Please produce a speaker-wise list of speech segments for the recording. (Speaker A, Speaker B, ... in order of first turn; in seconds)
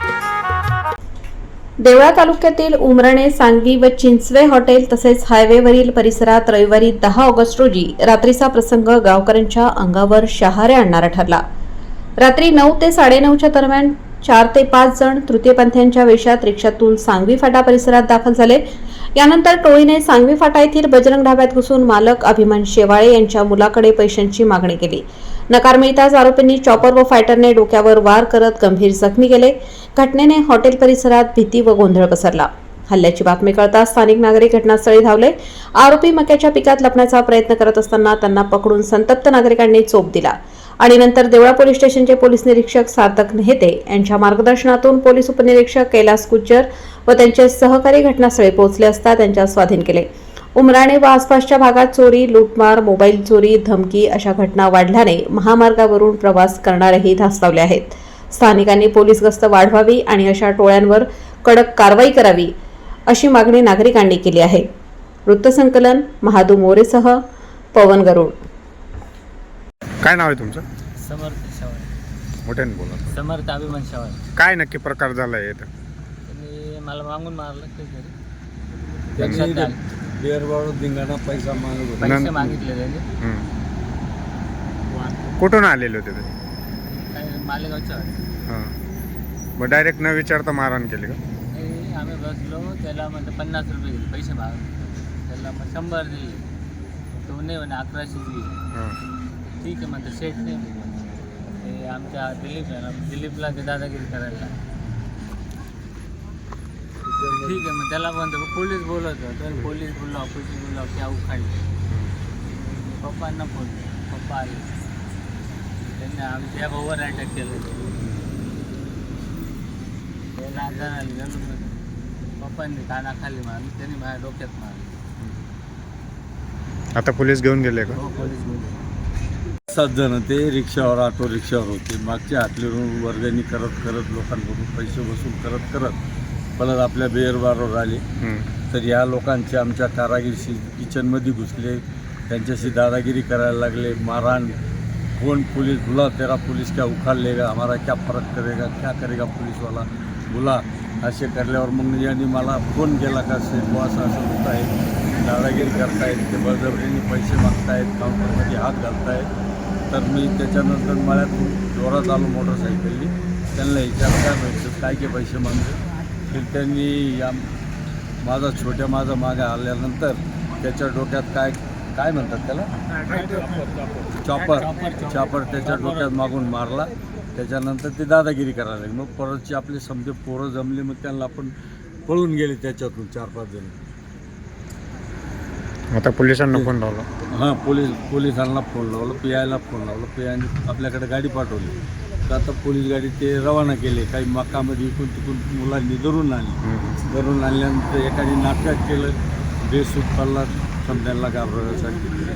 Speaker A: 1.8-11.4, 12.2-18.6, 19.1-62.5, 63.1-64.7, 65.2-67.2, 67.7-68.4
Speaker B: 70.0-70.6, 72.4-73.1, 74.3-75.7, 82.0-82.3, 83.2-83.5, 85.4-86.3, 88.5-88.7, 89.6-91.2, 127.0-128.0, 138.2-138.5, 185.9-187.1, 196.6-197.0
Speaker C: 71.0-71.9, 73.1-74.2, 76.2-78.1, 79.2-79.8, 82.0-83.0, 84.9-85.4, 86.8-88.3, 91.5-96.4, 97.1-98.6, 99.5-104.5, 107.3-111.7, 112.5-114.7, 115.8-117.9, 120.3-121.8, 122.3-125.0, 127.9-128.8, 174.3-176.2
Speaker D: 79.1-82.6, 107.0-107.7, 129.7-136.0, 136.6-138.0, 138.7-144.6, 145.2-159.3, 159.9-165.8, 166.3-167.5, 168.2-172.7, 174.2-181.5, 182.1-183.7, 187.3-191.7, 192.3-202.1